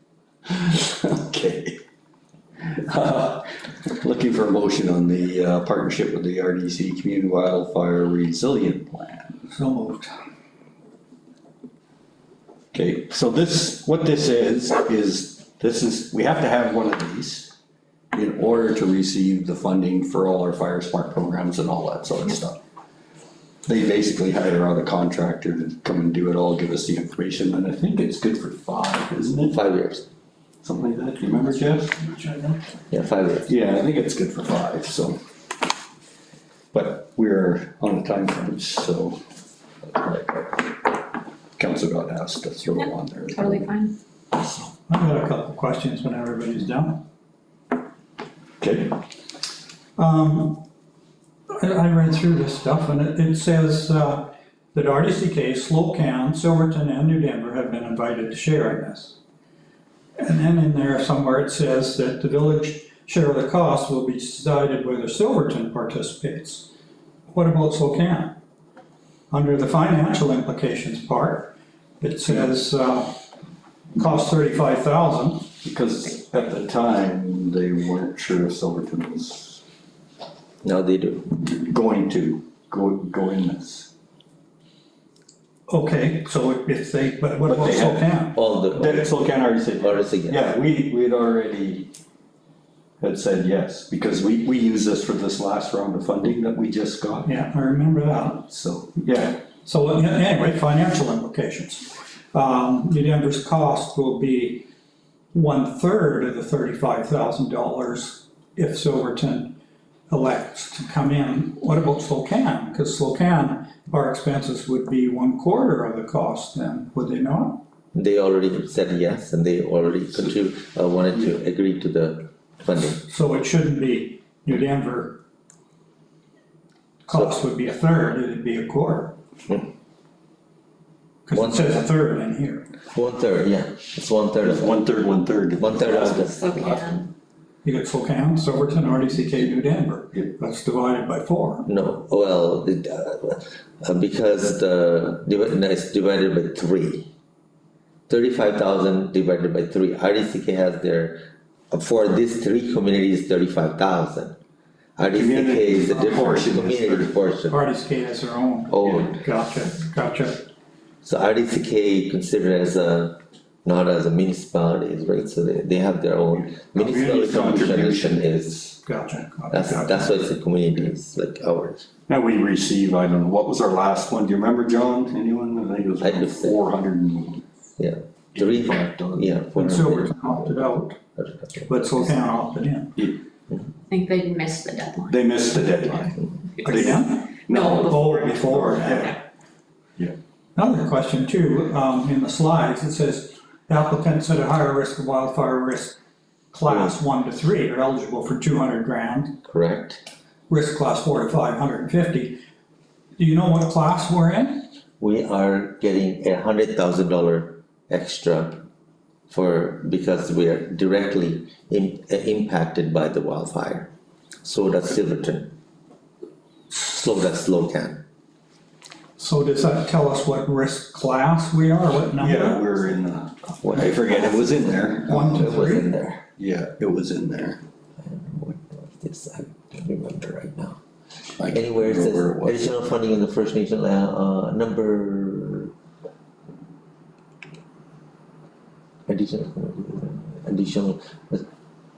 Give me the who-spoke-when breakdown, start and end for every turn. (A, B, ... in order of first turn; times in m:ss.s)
0:00.5-0:01.8 A
0:02.8-0:09.5 A
0:09.5-0:10.1 B
0:12.7-0:17.5 A
0:18.1-0:22.6 A
0:23.6-0:29.6 A
0:29.5-0:30.0 C
0:30.6-0:32.2 A
0:32.2-0:32.6 B
0:32.9-0:33.5 C
0:33.5-0:35.2 A
0:36.7-0:39.2 A
0:39.8-0:40.9 A
0:41.6-0:43.7 A
0:42.8-0:43.9 D
0:44.9-0:47.0 B
0:48.6-0:49.0 A
0:50.0-0:50.6 B
0:51.6-0:59.2 B
1:00.2-1:06.7 B
1:07.3-1:08.4 B
1:09.3-1:13.2 B
1:13.9-1:15.5 B
1:15.6-1:19.6 A
1:20.6-1:21.3 C
1:21.4-1:23.9 A
1:25.7-1:28.4 B
1:27.4-1:28.0 A
1:28.3-1:30.4 C
1:28.7-1:31.9 A
1:33.0-1:37.3 A
1:37.2-1:38.5 B
1:38.5-1:39.4 A
1:39.6-1:44.7 B
1:45.3-1:49.6 B
1:50.1-1:57.6 B
1:57.9-2:03.0 C
2:03.1-2:05.2 B
2:07.0-2:09.2 B
2:11.2-2:12.7 B
2:11.3-2:11.8 C
2:12.9-2:14.8 C
2:14.4-2:17.0 A
2:15.6-2:16.4 C
2:16.3-2:17.1 D
2:17.6-2:21.7 B
2:21.6-2:27.1 C
2:28.1-2:34.4 C
2:35.0-2:37.6 C
2:35.1-2:37.1 A
2:37.5-2:40.4 B
2:38.7-2:39.2 C
2:41.0-2:48.6 C
2:46.4-2:48.7 A
2:48.8-2:50.2 B
2:49.5-2:51.9 C
2:52.1-2:57.4 A
2:56.0-2:56.6 C
2:57.8-3:00.1 C
2:58.3-2:59.4 A
2:59.6-3:01.0 B
3:01.2-3:01.8 C
3:01.7-3:03.0 B
3:03.9-3:05.2 D
3:05.1-3:09.2 A
3:06.6-3:06.9 D
3:06.6-3:09.2 B
3:07.5-3:09.0 D
3:10.6-3:16.0 B
3:16.5-3:19.4 B
3:16.6-3:16.9 C
3:19.4-3:20.0 C
3:20.5-3:22.4 B
3:23.2-3:24.7 B
3:25.0-3:28.6 C
3:29.3-3:33.9 C
3:34.4-3:35.5 C
3:36.7-3:38.0 C
3:39.2-3:42.7 B
3:42.2-3:45.6 A
3:43.6-3:46.2 C
3:45.1-3:45.9 B
3:46.4-3:47.6 A
3:48.0-3:50.8 C
3:51.4-3:52.8 A
3:51.4-3:55.7 C
3:59.1-4:01.4 C